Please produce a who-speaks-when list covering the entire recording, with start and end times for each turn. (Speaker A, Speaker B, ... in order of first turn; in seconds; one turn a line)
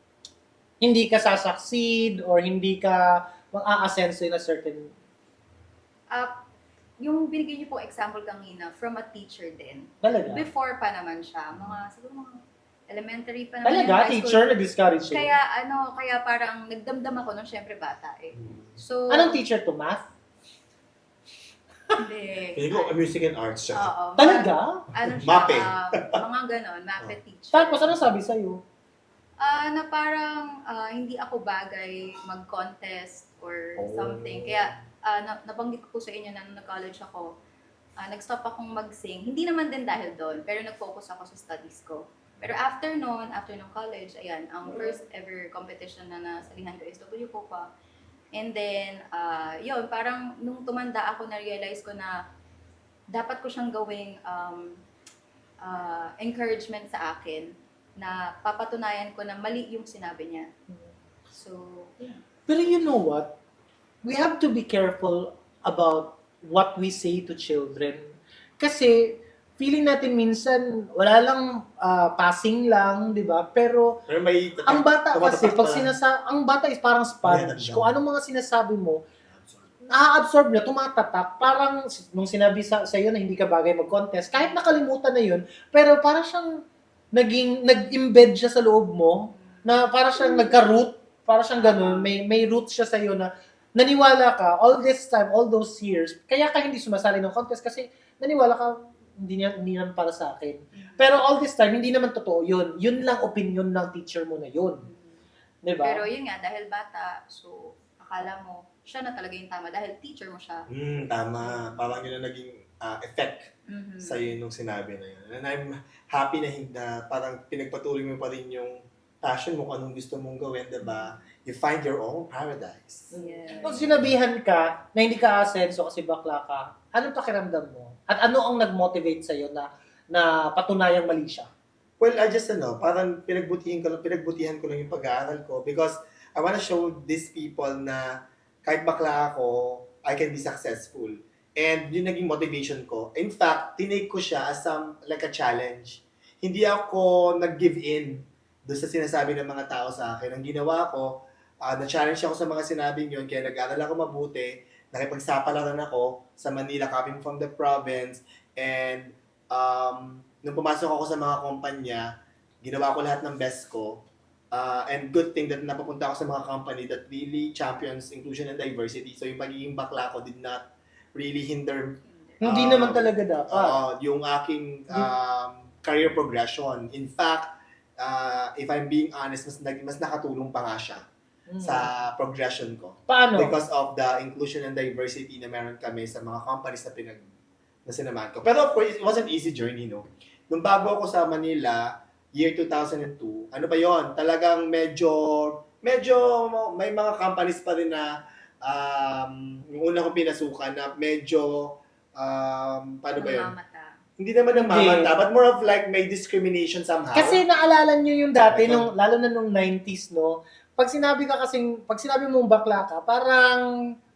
Speaker A: 0.8-4.9
Speaker B: 7.0-14.5
Speaker A: 10.0-10.5
Speaker A: 13.6-15.3
Speaker B: 15.1-19.4
Speaker A: 19.1-20.0
Speaker B: 22.0-22.9
Speaker C: 22.5-23.9
Speaker B: 23.7-27.9
Speaker A: 24.2-24.8
Speaker C: 25.1-26.2
Speaker A: 27.5-28.6
Speaker B: 29.4-37.3
Speaker C: 33.8-34.7
Speaker B: 38.0-47.7
Speaker B: 48.3-52.1
Speaker B: 53.1-54.8
Speaker B: 55.6-60.5
Speaker B: 61.3-62.1
Speaker A: 62.5-63.3
Speaker A: 64.0-74.0
Speaker C: 74.1-75.9
Speaker A: 74.7-79.0
Speaker C: 77.2-77.9
Speaker A: 79.9-86.6
Speaker A: 87.1-104.8
Speaker B: 89.3-89.8
Speaker B: 91.6-92.1
Speaker B: 100.8-101.2
Speaker B: 104.8-105.2
Speaker A: 105.6-106.0
Speaker B: 105.8-110.7
Speaker C: 110.7-123.1
Speaker B: 113.7-114.3
Speaker B: 120.8-121.1
Speaker B: 123.1-123.9
Speaker A: 123.1-131.5
Speaker C: 132.0-162.1
Speaker C: 162.6-164.0
Speaker C: 164.5-181.0
Speaker B: 172.1-172.4
Speaker A: 172.4-173.8
Speaker A: 181.5-181.9
Speaker C: 181.6-187.2
Speaker A: 183.1-183.5
Speaker C: 187.8-198.1
Speaker C: 198.6-203.5
Speaker B: 203.2-203.9
Speaker C: 204.2-207.4
Speaker A: 204.5-205.1
Speaker A: 207.1-213.6
Speaker C: 208.5-208.9